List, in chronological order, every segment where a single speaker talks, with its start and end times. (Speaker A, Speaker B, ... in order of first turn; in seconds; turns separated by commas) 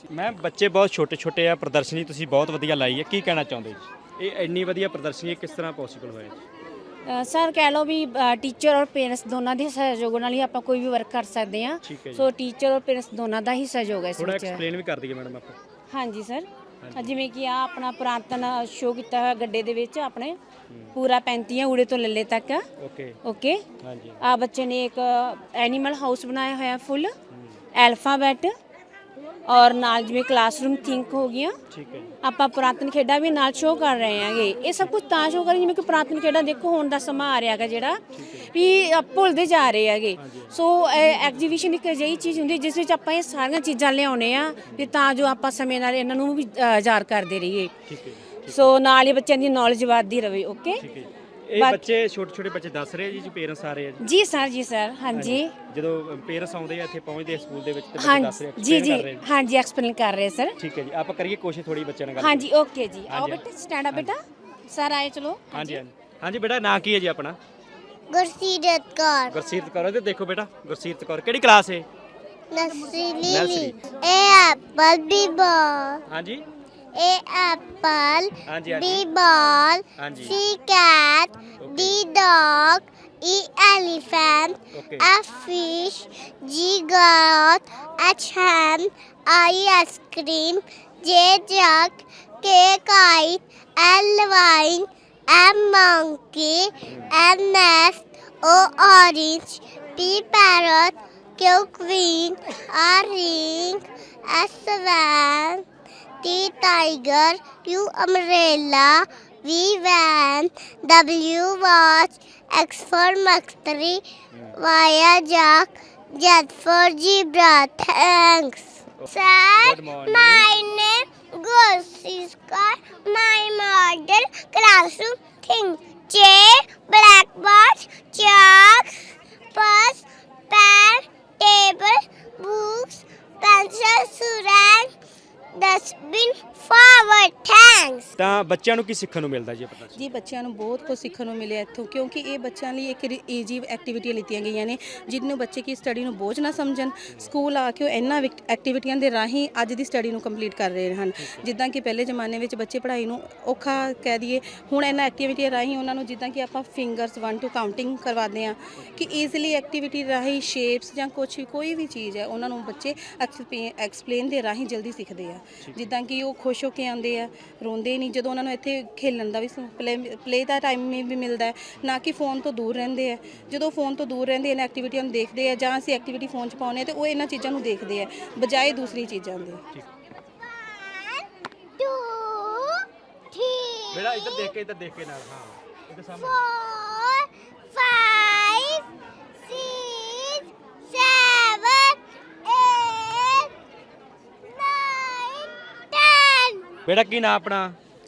Speaker A: 0.1-6.4, Speaker B: 7.1-14.6, Speaker A: 11.8-12.3, Speaker A: 14.2-15.6, Speaker B: 15.9-20.4, Speaker A: 16.8-17.1, Speaker B: 20.9-22.6, Speaker A: 22.8-23.2, Speaker B: 23.2-23.6, Speaker A: 23.8-24.2, Speaker B: 24.2-27.1, Speaker A: 27.3-27.6, Speaker B: 27.8-28.5, Speaker B: 29.5-31.6, Speaker A: 31.7-32.2, Speaker B: 32.2-47.7, Speaker A: 38.1-38.5, Speaker A: 40.2-40.5, Speaker A: 47.9-48.7, Speaker B: 48.5-50.8, Speaker A: 50.8-54.0, Speaker B: 51.6-51.9, Speaker B: 54.0-55.5, Speaker A: 55.1-59.2, Speaker B: 58.0-60.5, Speaker A: 60.6-62.5, Speaker B: 62.2-65.8, Speaker A: 63.1-64.1, Speaker A: 65.5-67.4, Speaker C: 68.1-69.3, Speaker A: 69.3-71.9, Speaker C: 72.5-76.0, Speaker A: 73.2-73.8, Speaker A: 76.1-76.5, Speaker C: 77.0-105.6, Speaker A: 78.5-79.1, Speaker A: 80.0-80.4, Speaker A: 81.6-82.0, Speaker A: 84.7-85.1, Speaker A: 96.9-97.1, Speaker C: 106.2-114.0, Speaker C: 114.5-134.9, Speaker A: 119.0-120.5, Speaker C: 135.6-138.1, Speaker A: 138.2-140.1, Speaker D: 140.0-179.6, Speaker A: 158.9-159.2, Speaker A: 165.6-165.9, Speaker C: 180.4-181.2, Speaker C: 181.8-184.5, Speaker A: 183.9-186.4, Speaker C: 186.1-188.8, Speaker C: 189.4-193.5, Speaker C: 194.5-196.7, Speaker A: 196.9-197.8